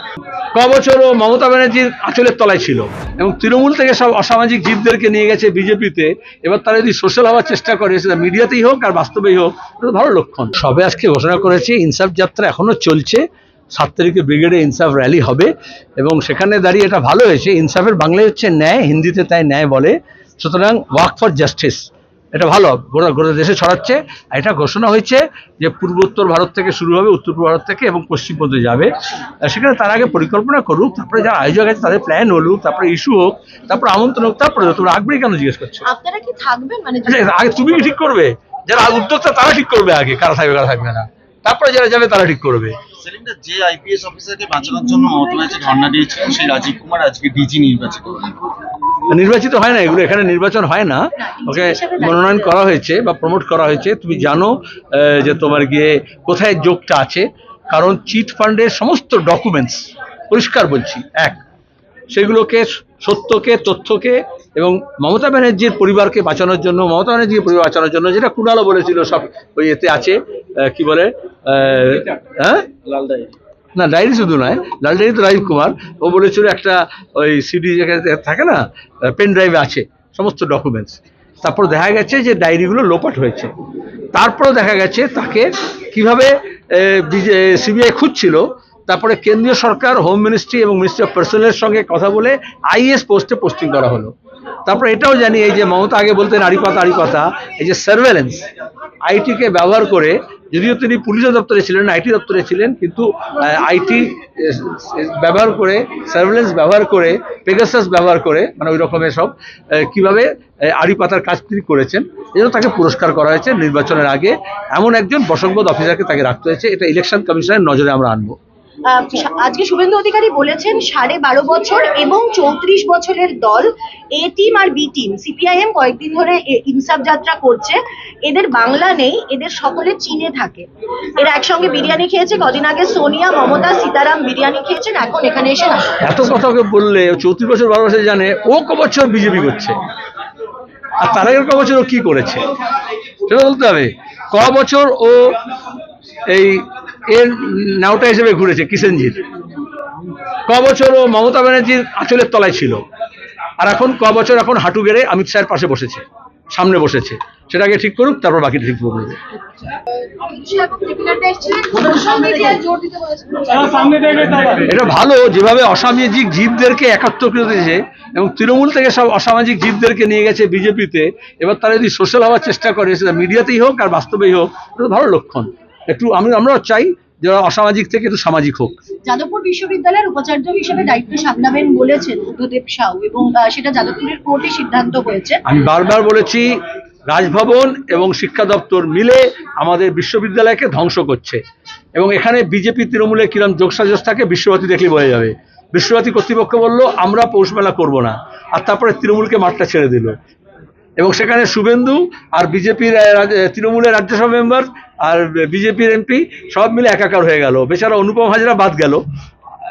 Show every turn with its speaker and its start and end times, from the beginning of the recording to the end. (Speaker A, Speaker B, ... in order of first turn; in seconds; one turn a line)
Speaker A: 0.5-13.2
Speaker A: 13.7-28.9
Speaker A: 29.4-35.9
Speaker B: 35.9-37.3
Speaker A: 37.0-42.8
Speaker C: 43.0-48.4
Speaker A: 49.1-61.4
Speaker B: 51.2-52.5
Speaker A: 62.1-72.8
Speaker C: 72.9-73.3
Speaker A: 73.7-83.5
Speaker A: 84.1-94.1
Speaker A: 94.7-98.5
Speaker A: 99.0-118.3
Speaker B: 118.9-136.0
Speaker A: 136.0-139.8
Speaker A: 141.0-142.4
Speaker A: 143.2-145.3
Speaker A: 146.3-149.2
Speaker A: 150.5-152.8
Speaker A: 153.6-156.0
Speaker A: 156.5-159.2
Speaker B: 160.1-164.5
Speaker A: 164.5-178.8
Speaker B: 179.0-185.4
Speaker A: 185.4-186.5
Speaker A: 187.1-191.4
Speaker A: 191.9-200.2
Speaker A: 201.0-209.0